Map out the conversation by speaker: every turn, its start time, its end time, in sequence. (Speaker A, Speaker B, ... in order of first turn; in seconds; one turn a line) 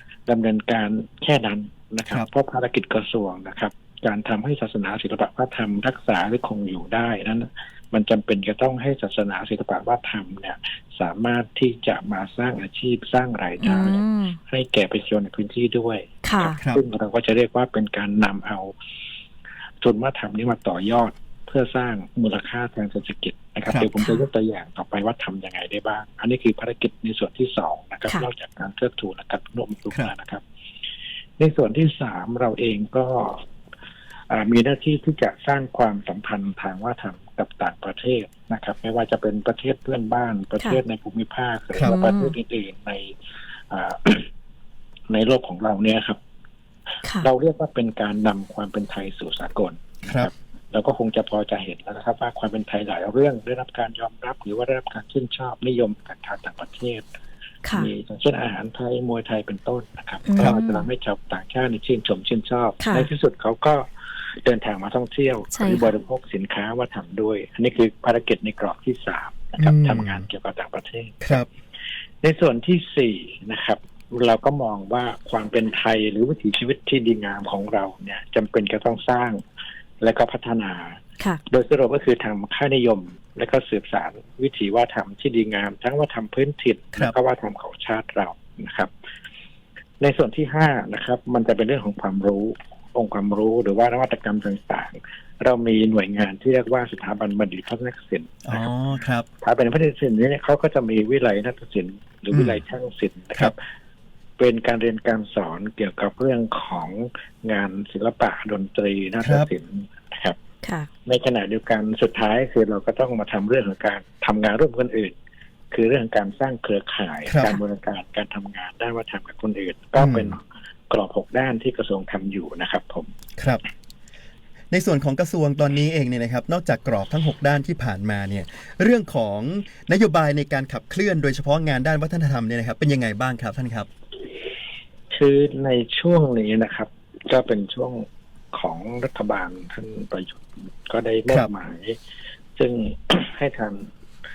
Speaker A: 0.3-18.7
Speaker B: 13.6-14.4
Speaker B: 16.2-16.6
Speaker C: 16.4-16.8
Speaker A: 19.8-30.4
Speaker C: 23.7-24.1
Speaker A: 31.4-33.4
Speaker A: 34.3-43.1
Speaker B: 41.8-42.3
Speaker A: 43.7-44.3
Speaker A: 45.1-46.2
Speaker A: 47.2-57.1
Speaker C: 50.0-50.3
Speaker A: 57.7-63.9
Speaker B: 60.2-60.9
Speaker B: 62.8-63.1
Speaker A: 64.4-71.4
Speaker B: 65.5-65.9
Speaker C: 69.6-70.2
Speaker C: 71.2-71.5
Speaker A: 72.2-79.4
Speaker A: 80.0-88.9
Speaker A: 90.0-98.7
Speaker C: 98.5-99.3
Speaker A: 99.4-103.6
Speaker C: 102.3-102.6
Speaker A: 104.4-110.4
Speaker C: 109.2-109.5
Speaker B: 110.6-110.9
Speaker A: 111.0-115.2
Speaker A: 115.7-123.1
Speaker C: 117.3-117.6
Speaker C: 120.0-120.3
Speaker C: 124.7-133.9
Speaker A: 135.1-142.0
Speaker A: 142.6-143.9